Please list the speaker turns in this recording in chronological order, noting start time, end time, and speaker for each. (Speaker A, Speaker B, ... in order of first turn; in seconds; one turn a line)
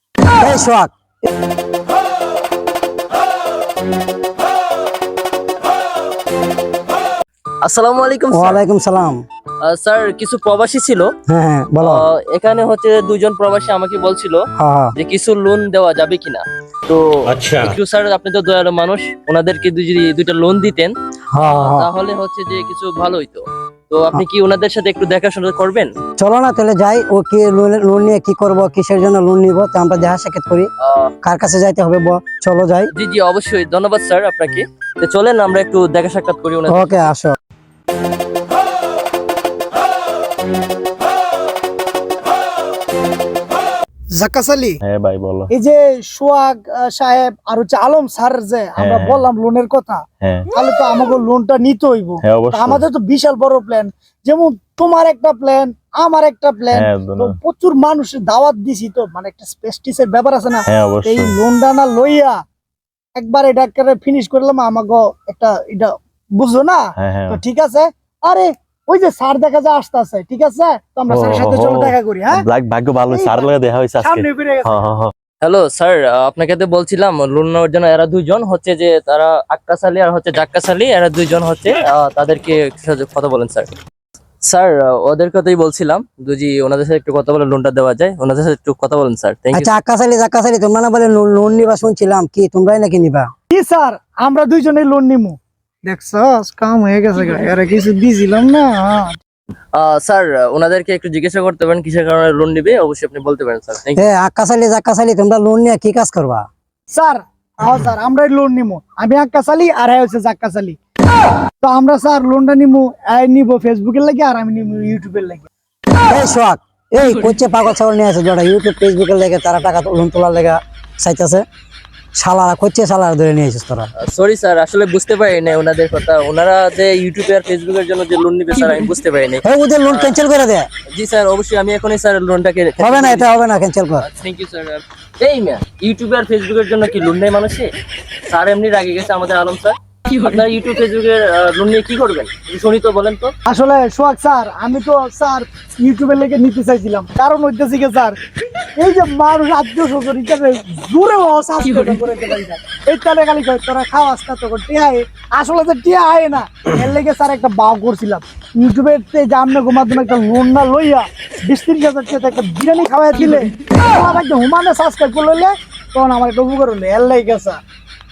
Speaker A: 0.4-0.9
Speaker B: 7.6-8.6
Speaker A: 8.3-9.2
Speaker B: 9.7-11.1
Speaker A: 11.3-12.0
Speaker B: 11.8-14.4
Speaker A: 14.6-14.9
Speaker B: 14.9-20.9
Speaker C: 17.3-17.8
Speaker A: 21.3-21.9
Speaker B: 21.5-25.9
Speaker A: 26.2-30.7
Speaker B: 30.8-31.1
Speaker A: 31.2-32.9
Speaker B: 32.9-37.1
Speaker A: 36.7-37.3
Speaker D: 44.1-44.8
Speaker C: 44.8-45.5
Speaker D: 45.5-62.4
Speaker C: 48.8-49.2
Speaker C: 50.2-50.5
Speaker C: 52.2-52.8
Speaker C: 56.7-57.3
Speaker C: 60.7-61.3
Speaker D: 63.1-72.4
Speaker C: 67.0-67.4
Speaker C: 71.1-75.1
Speaker D: 73.1-73.5
Speaker D: 74.0-74.7
Speaker B: 75.4-83.7
Speaker B: 84.4-89.7
Speaker A: 89.5-93.3
Speaker D: 93.5-99.2
Speaker B: 99.7-104.0
Speaker A: 103.9-106.4
Speaker D: 106.9-110.8
Speaker D: 111.6-115.5
Speaker A: 116.1-121.4
Speaker A: 122.2-123.9
Speaker B: 124.0-130.2
Speaker A: 129.4-130.7
Speaker B: 130.9-133.3
Speaker A: 132.8-134.1
Speaker B: 134.0-137.7
Speaker B: 138.3-143.3
Speaker D: 143.5-148.2
Speaker D: 148.8-167.6